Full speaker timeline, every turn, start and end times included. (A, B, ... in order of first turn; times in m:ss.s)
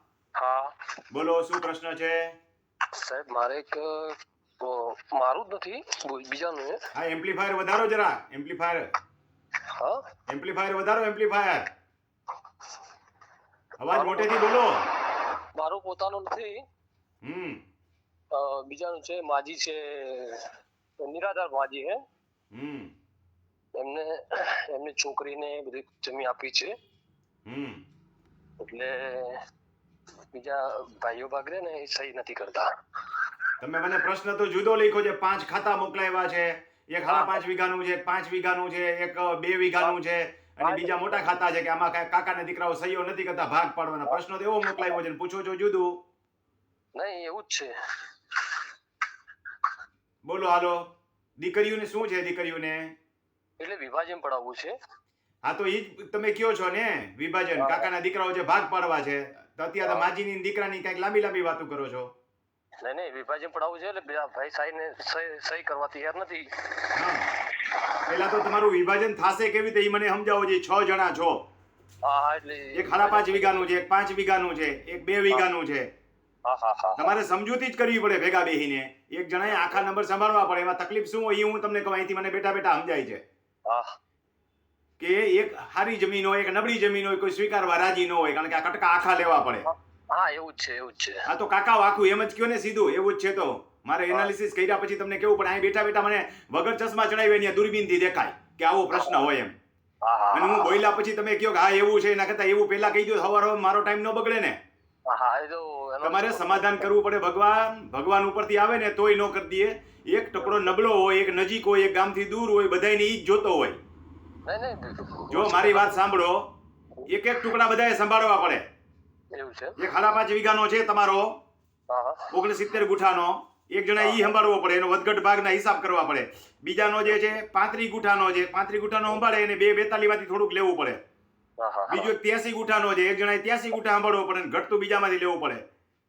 0:00.4-0:00.7 A
0:01.1-0:02.2 B
0:02.9-0:06.8 A
0:06.9-0:08.8 B
0:09.7-0:10.0 A
0:10.3-0:11.7 B
0:13.8-0:14.8 B
0:13.9-0:16.6 A
0:17.2-0:17.6 B
0:18.3-0:22.0 A
0:22.5-0:22.9 B
0:23.8-0:26.7 A
0:27.4-0:27.8 B
0:28.6-0:29.4 A
0:30.3-0:33.2 A
0:33.6-0:46.0 B
0:37.1-0:37.4 A
0:40.6-0:41.3 A
0:47.0-0:47.7 A
0:48.3-0:48.6 A
0:50.2-0:50.8 B
0:51.4-0:52.9 B
0:53.6-0:54.7 A
0:55.5-1:02.1 B
0:57.6-0:57.9 A
0:59.8-1:00.1 A
1:02.8-1:06.6 A
1:06.9-1:07.3 B
1:08.1-1:11.4 B
1:12.0-1:13.7 A
1:12.7-1:15.9 B
1:16.5-1:17.1 A
1:17.0-1:23.2 B
1:19.4-1:19.8 A
1:23.7-1:23.9 A
1:25.0-1:29.7 B
1:29.7-1:31.2 A
1:31.3-1:39.5 B
1:38.9-1:39.2 A
1:40.0-1:40.8 A
1:40.3-1:44.6 B
1:45.1-1:46.9 A
1:46.0-1:53.8 B
1:50.4-1:50.8 A
1:54.4-1:56.0 A
1:55.3-1:56.4 B
1:57.1-1:58.6 B
1:59.3-1:59.8 A
1:59.8-2:01.3 B
2:01.9-2:02.3 A
2:02.3-2:11.0 B
2:04.0-2:04.3 A
2:07.0-2:07.4 A
2:11.6-2:12.1 A
2:11.9-2:15.6 B